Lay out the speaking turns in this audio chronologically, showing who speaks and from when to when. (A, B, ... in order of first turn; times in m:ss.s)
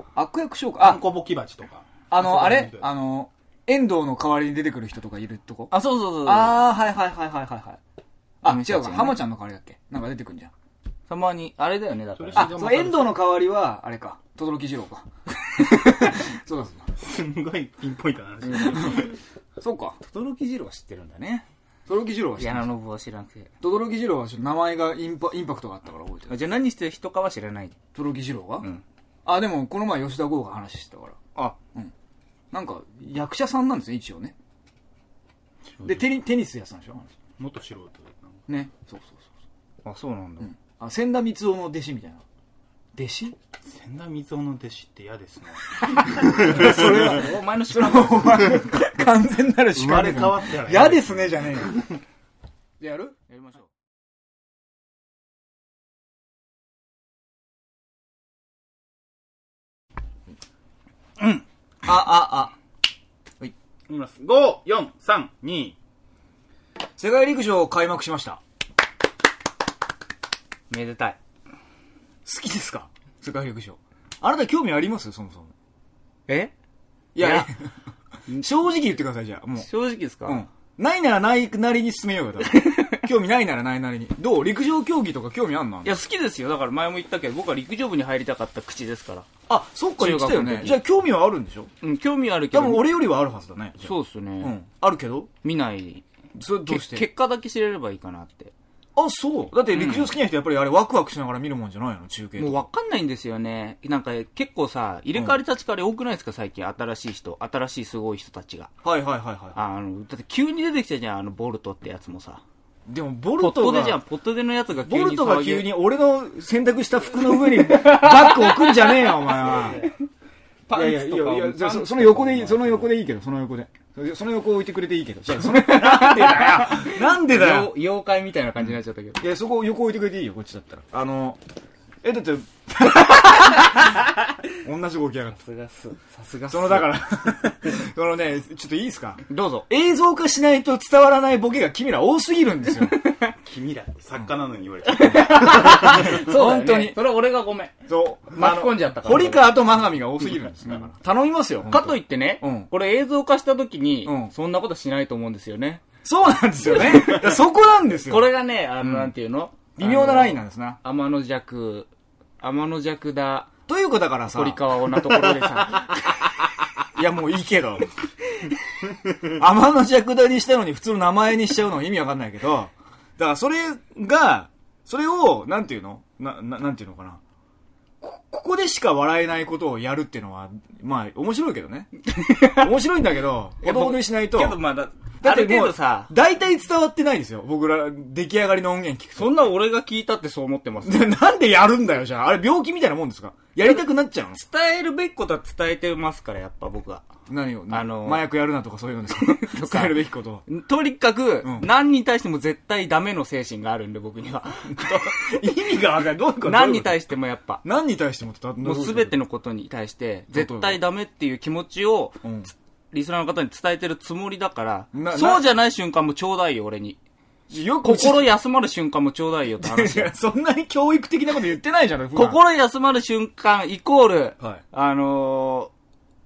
0:00.1-0:01.0 A
0:00.8-0:02.9 B
0:02.1-0:05.7 A
0:05.7-0:06.6 C
0:06.2-0:07.8 A
0:08.4-0:10.5 A
0:08.4-0:09.2 C
0:11.1-0:12.6 C
0:12.2-0:13.2 B
0:12.3-0:16.8 A
0:17.0-0:19.1 B
0:18.4-0:19.0 C
0:19.6-0:20.0 A
0:20.0-0:21.4 C
0:21.9-0:22.7 A
0:22.4-0:23.5 C
0:23.6-0:26.3 A
0:26.3-0:27.8 C
0:27.9-0:28.6 A
0:29.2-0:31.2 A
0:32.5-0:34.3 A
0:35.8-0:36.0 C
0:35.8-0:37.1 A
0:37.4-0:38.2 B
0:38.5-0:39.2 A
0:39.8-0:40.5 C
0:40.4-0:42.2 A
0:42.9-0:43.4 A
0:43.7-0:46.7 B
0:46.3-0:51.7 A
0:46.4-0:48.7 C
0:49.8-0:51.8 B
0:52.8-0:53.1 A
0:53.3-0:53.7 C
1:01.8-1:02.5 A
1:03.9-1:05.8 B
1:07.0-1:08.4 A
1:10.7-1:11.2 C
1:12.2-1:15.5 A
1:17.1-1:17.6 A
1:17.2-1:17.5 C
1:18.4-1:19.7 A
1:19.6-1:20.4 C
1:20.2-1:26.0 A
1:22.4-1:23.0 C
1:25.8-1:29.3 C
1:29.5-1:31.7 A
1:30.0-1:30.8 C
1:31.8-1:33.0 C
1:32.5-1:35.3 A
1:33.8-1:34.5 C
1:35.4-1:36.0 C
1:36.3-1:37.0 A
1:36.6-1:38.5 C
1:39.0-1:42.7 A
1:39.7-1:40.1 C
1:42.4-1:48.7 C
1:48.8-1:49.6 A
1:49.5-1:52.4 C
1:52.9-1:54.0 A
1:53.4-1:55.8 C
1:54.8-1:59.8 A
1:57.6-1:58.9 C
1:59.6-1:59.9 C
2:00.7-2:02.9 C
2:00.7-2:07.7 A
2:05.4-2:09.2 C
2:09.2-2:11.4 A
2:12.0-2:13.8 A
2:14.6-2:15.4 A
2:15.3-2:17.0 C
2:16.5-2:23.0 A
2:19.3-2:19.7 C
2:22.8-2:23.3 C
2:23.4-2:26.1 B
2:24.9-2:27.7 C
2:25.5-2:27.0 A
2:27.9-2:32.7 A
2:28.3-2:29.7 C
2:31.7-2:35.8 C
2:34.0-2:34.3 A
2:36.0-2:38.2 A
2:36.7-2:37.3 C
2:38.0-2:41.9 C
2:38.8-2:39.1 A
2:39.8-2:40.8 A
2:42.4-2:43.5 C
2:43.7-2:44.6 A
2:44.3-2:46.4 C
2:46.9-2:47.9 A
2:49.2-2:57.2 A
2:58.0-3:01.9 A
3:02.1-3:02.5 C
3:02.5-3:04.6 A
3:03.6-3:06.1 C
3:05.2-3:09.4 A
3:09.2-3:11.1 C
3:10.8-3:14.4 A
3:14.3-3:17.0 C
3:17.3-3:20.4 A
3:17.7-3:18.3 C
3:19.1-3:25.5 C
3:24.7-3:27.0 A
3:26.4-3:27.6 C
3:27.6-3:29.2 A
3:28.6-3:32.4 C
3:30.3-3:30.8 A
3:32.2-3:32.5 A
3:32.9-3:37.0 C
3:34.9-3:35.4 A
3:37.5-3:38.3 A
3:37.8-3:40.1 C
3:39.6-3:42.4 A
3:42.1-3:45.7 C